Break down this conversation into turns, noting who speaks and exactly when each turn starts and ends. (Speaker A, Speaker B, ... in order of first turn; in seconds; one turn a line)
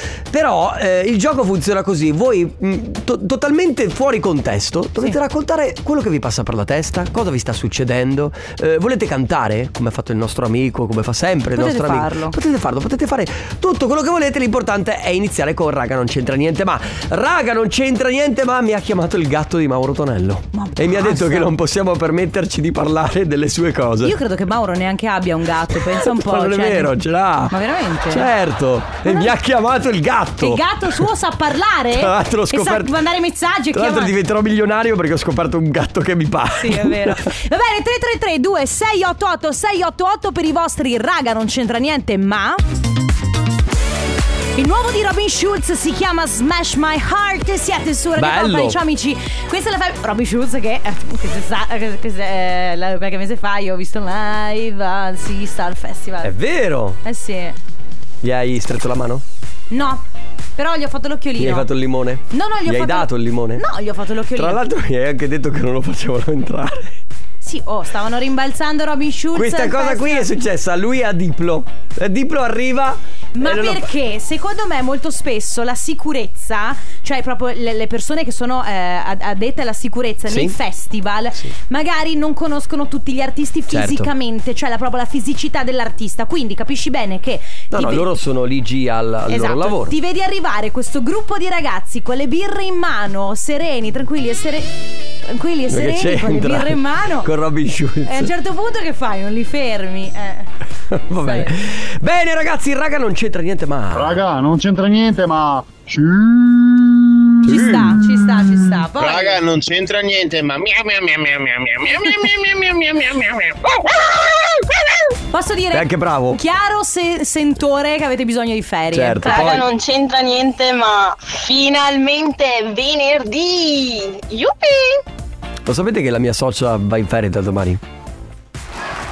Speaker A: 0.3-24.2
Speaker B: 11.6-12.3
Speaker B: 20.5-21.5
Speaker B: 24.0-26.9
Speaker A: 25.9-27.5
Speaker B: 27.5-28.3
Speaker A: 28.1-30.6
Speaker B: 29.1-29.3
Speaker B: 30.4-34.1
Speaker A: 31.9-32.9
Speaker A: 33.7-37.2
Speaker B: 36.6-42.6
Speaker B: 44.6-56.3
Speaker A: 48.2-48.8
Speaker A: 56.2-57.0
Speaker B: 57.0-57.5
Speaker A: 58.2-59.2
Speaker B: 59.7-60.0
Speaker B: 60.6-61.7
Speaker A: 61.4-63.6
Speaker B: 62.3-64.6
Speaker A: 64.4-66.9
Speaker B: 67.4-70.3
Speaker A: 69.3-73.9
Speaker B: 73.4-88.0
Speaker A: 80.3-80.5
Speaker A: 83.7-84.1
Speaker A: 87.7-89.9
Speaker B: 89.3-94.7
Speaker B: 95.2-97.3
Speaker A: 95.7-98.3
Speaker B: 98.1-100.5
Speaker A: 100.9-104.2
Speaker B: 101.2-101.5
Speaker C: 103.9-107.7
Speaker A: 107.4-108.0
Speaker B: 107.5-109.4
Speaker D: 109.0-113.6
Speaker B: 115.3-119.6
Speaker A: 115.7-116.4
Speaker A: 118.9-119.6
Speaker E: 119.2-125.0
Speaker A: 125.7-127.8